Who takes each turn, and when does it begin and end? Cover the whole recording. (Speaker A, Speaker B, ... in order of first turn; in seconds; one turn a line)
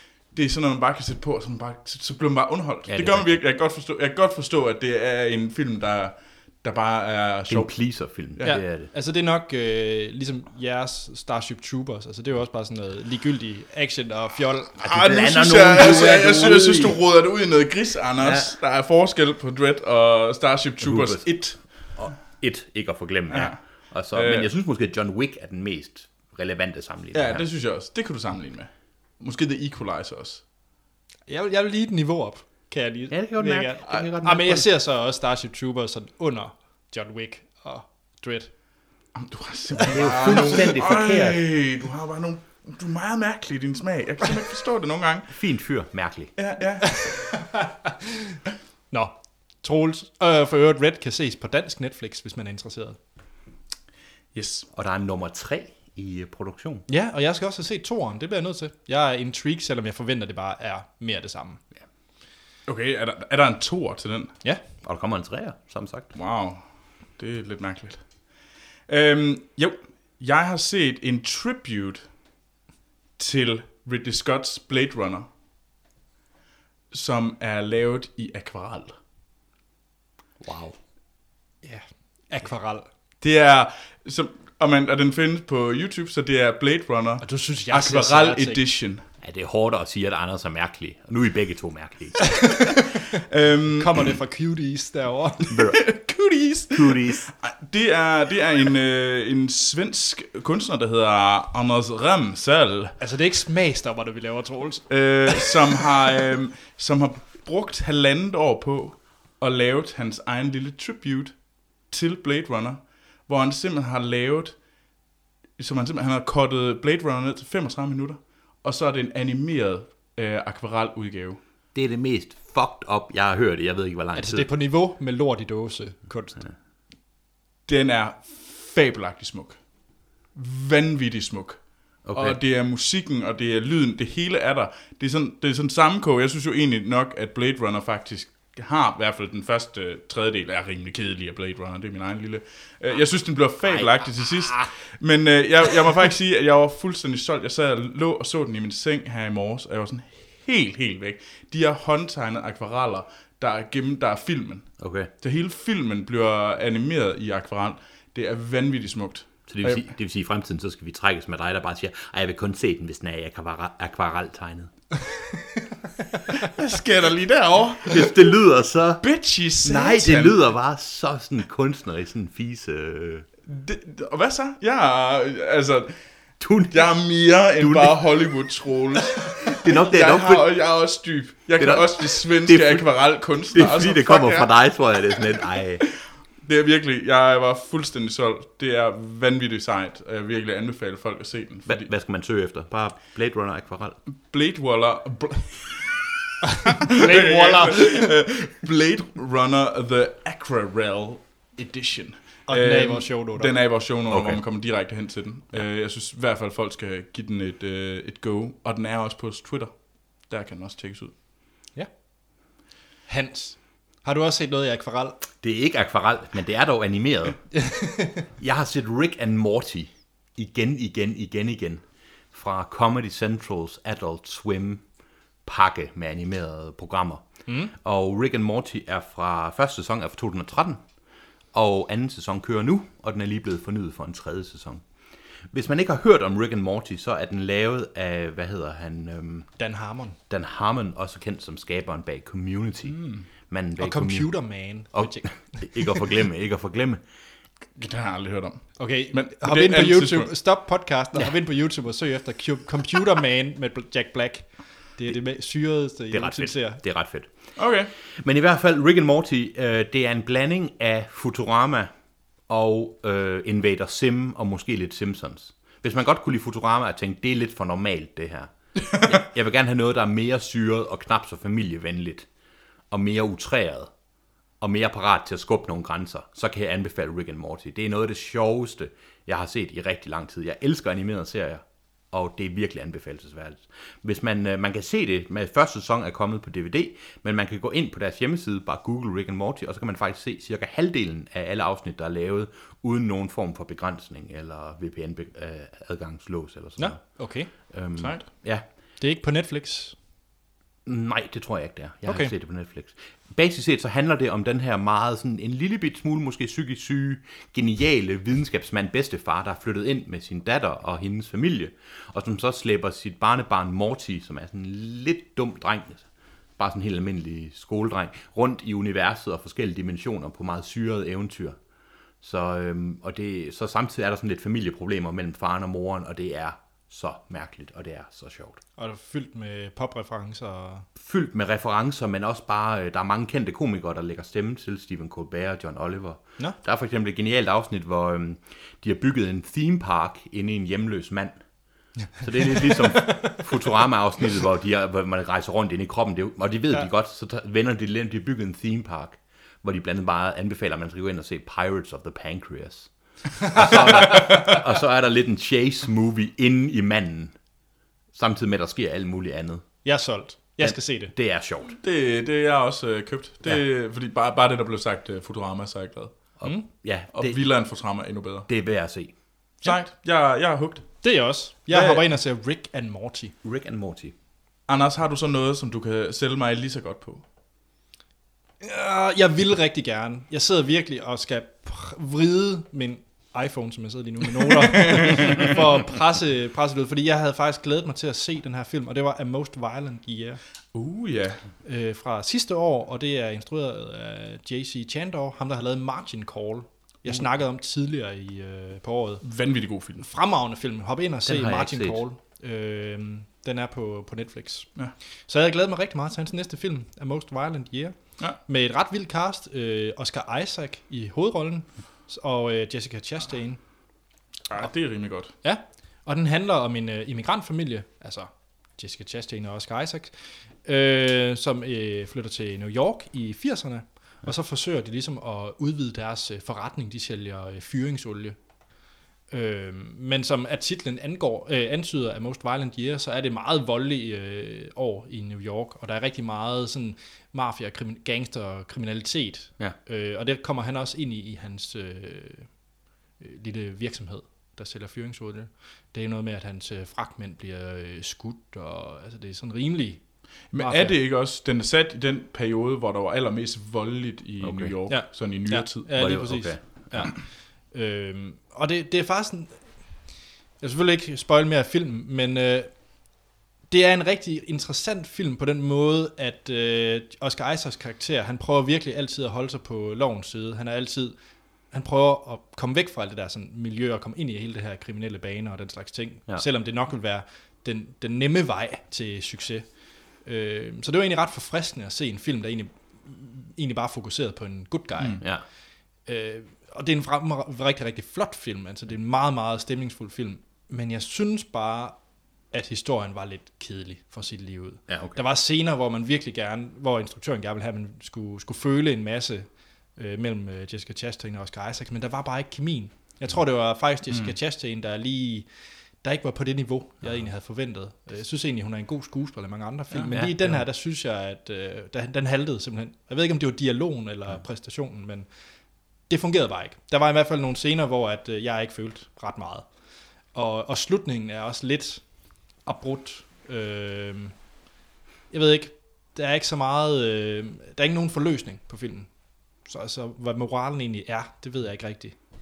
Speaker A: 0.3-8.6
Speaker B: 2.9-3.4
Speaker B: 7.5-8.9
Speaker C: 8.4-14.8
Speaker B: 14.8-17.0
Speaker A: 14.8-21.6
Speaker B: 18.2-18.6
Speaker B: 20.8-27.4
Speaker A: 23.3-24.5
Speaker A: 27.1-30.4
Speaker C: 31.3-38.5
Speaker B: 33.1-34.7
Speaker A: 39.1-45.3
Speaker B: 39.9-41.4
Speaker B: 45.3-46.3
Speaker A: 46.4-47.0
Speaker C: 46.8-48.3
Speaker C: 48.9-53.0
Speaker A: 54.3-54.7
Speaker B: 54.7-56.8
Speaker C: 56.9-61.6
Speaker A: 62.6-64.3
Speaker B: 64.8-66.1
Speaker A: 66.1-68.3
Speaker A: 68.9-72.1
Speaker A: 73.2-75.3
Speaker A: 76.9-78.9
Speaker B: 80.4-80.8
Speaker C: 81.6-82.9
Speaker A: 83.2-89.0
Speaker C: 87.2-88.6
Speaker B: 89.2-92.5
Speaker A: 93.3-93.9
Speaker C: 93.8-95.4
Speaker B: 95.5-95.9
Speaker A: 95.5-102.9
Speaker B: 96.7-97.3
Speaker C: 103.0-105.5
Speaker A: 104.9-114.6
Speaker A: 115.6-121.4
Speaker B: 121.7-124.5
Speaker C: 124.1-126.4
Speaker A: 127.7-129.6
Speaker A: 130.3-159.8
Speaker B: 132.0-132.4
Speaker B: 143.7-144.6
Speaker B: 154.8-155.1
Speaker B: 159.5-164.7
Speaker A: 166.4-168.2
Speaker B: 167.8-169.0
Speaker A: 169.0-170.4
Speaker B: 169.6-173.2
Speaker A: 173.5-175.9
Speaker B: 176.4-178.2
Speaker A: 176.7-184.5
Speaker B: 179.5-180.5
Speaker B: 181.6-185.8
Speaker A: 186.4-191.9
Speaker B: 191.7-194.0
Speaker A: 194.2-196.1
Speaker A: 196.7-211.1
Speaker C: 196.8-198.1
Speaker C: 202.5-203.6
Speaker B: 204.1-204.4
Speaker C: 213.1-215.2
Speaker B: 215.4-217.4
Speaker C: 217.5-218.2
Speaker B: 218.4-224.8
Speaker B: 225.4-230.8
Speaker C: 227.5-227.7
Speaker B: 231.5-234.8
Speaker B: 235.5-239.5
Speaker C: 239.6-240.2
Speaker B: 240.3-247.0
Speaker A: 242.9-243.2
Speaker C: 243.8-246.0
Speaker A: 247.8-250.3
Speaker C: 248.8-256.8
Speaker B: 256.1-257.3
Speaker A: 257.6-257.9
Speaker B: 258.2-261.9
Speaker B: 262.5-272.3
Speaker B: 272.9-273.9
Speaker B: 274.6-298.6
Speaker C: 296.8-297.5
Speaker A: 298.0-298.2
Speaker C: 299.0-299.9
Speaker B: 300.9-316.1
Speaker C: 302.0-302.3
Speaker B: 316.6-321.6
Speaker B: 322.2-328.6
Speaker C: 328.8-330.9
Speaker B: 330.9-341.4
Speaker C: 342.0-343.4
Speaker B: 342.2-352.9
Speaker B: 353.4-357.3
Speaker B: 358.1-359.7
Speaker C: 359.8-361.1
Speaker B: 360.6-361.8
Speaker A: 361.7-366.2
Speaker B: 366.4-367.4
Speaker A: 367.1-368.5
Speaker B: 368.5-369.1
Speaker A: 369.6-371.0
Speaker C: 371.0-373.3
Speaker A: 371.7-372.0
Speaker B: 373.4-374.1
Speaker A: 374.7-377.2
Speaker C: 378.6-390.4
Speaker A: 384.6-385.5
Speaker A: 390.7-391.4
Speaker C: 391.6-399.2
Speaker A: 399.2-400.0
Speaker C: 400.0-404.7
Speaker B: 401.2-402.0
Speaker C: 405.3-413.6
Speaker A: 414.5-415.3
Speaker C: 415.4-420.1
Speaker C: 420.6-428.4
Speaker C: 429.3-442.6
Speaker C: 443.2-451.0
Speaker A: 450.5-455.9
Speaker B: 454.4-454.7
Speaker C: 454.9-460.0
Speaker B: 455.9-457.1
Speaker C: 460.6-462.7
Speaker C: 463.7-471.1
Speaker C: 471.7-479.7
Speaker C: 480.2-485.2
Speaker C: 486.1-492.0
Speaker C: 492.5-505.4
Speaker B: 494.9-495.2
Speaker C: 506.0-515.3
Speaker B: 510.1-510.6
Speaker C: 516.0-519.7
Speaker C: 520.3-524.4
Speaker C: 525.3-532.1